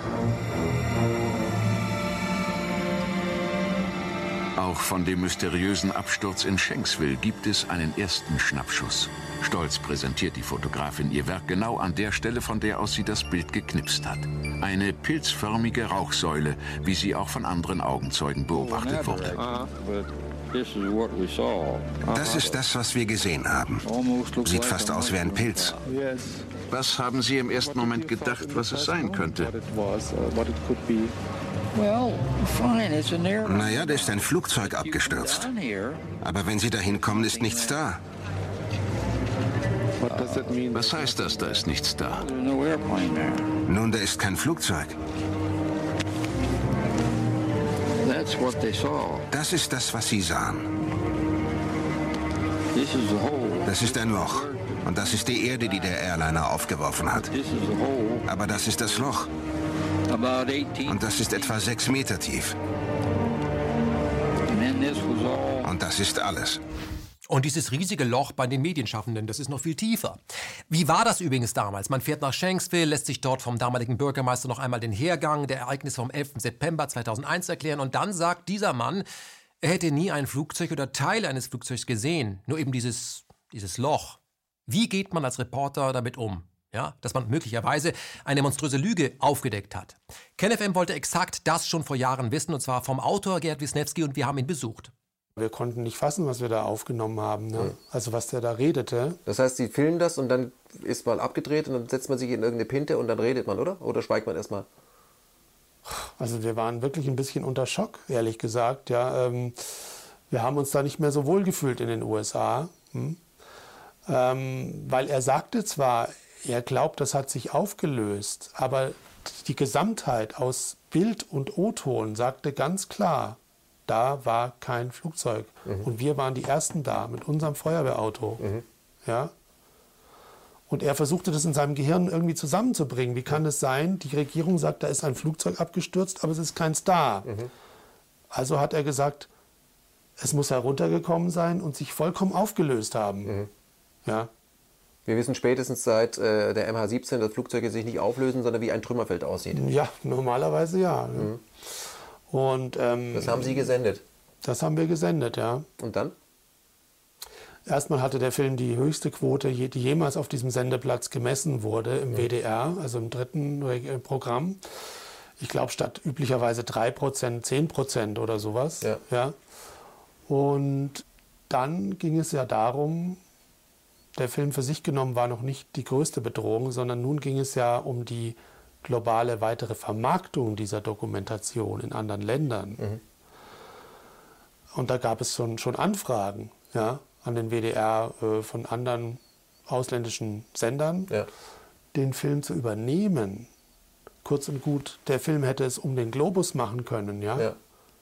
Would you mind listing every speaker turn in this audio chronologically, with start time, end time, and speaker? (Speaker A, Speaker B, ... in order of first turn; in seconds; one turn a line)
Speaker A: 4.5-19.4
Speaker B: 22.1-25.8
Speaker A: 26.7-29.5
Speaker B: 33.4-35.6
Speaker B: 36.2-38.0
Speaker A: 40.7-42.2
Speaker B: 43.7-44.9
Speaker B: 49.3-50.6
Speaker B: 53.6-57.4
Speaker B: 58.2-59.3
Speaker B: 60.8-62.5
Speaker B: 65.6-66.6
Speaker C: 67.3-70.2
Speaker C: 70.7-79.0
Speaker C: 79.6-94.9
Speaker D: 95.4-99.2
Speaker E: 99.4-100.5
Speaker E: 101.0-104.6
Speaker D: 105.9-109.5
Speaker D: 110.3-113.2
Speaker D: 114.1-128.4
Speaker D: 129.0-129.3
Speaker D: 130.7-137.3
Speaker D: 138.3-139.3
Speaker D: 140.2-143.3
Speaker E: 145.3-146.0
Speaker D: 149.5-151.3
Speaker D: 152.3-153.7
Speaker D: 154.4-155.7
Speaker D: 157.7-164.6
Speaker D: 165.4-169.3
Speaker D: 170.3-173.2
Speaker D: 174.2-182.8
Speaker D: 184.7-191.1
Speaker D: 191.9-193.5
Speaker D: 194.2-197.5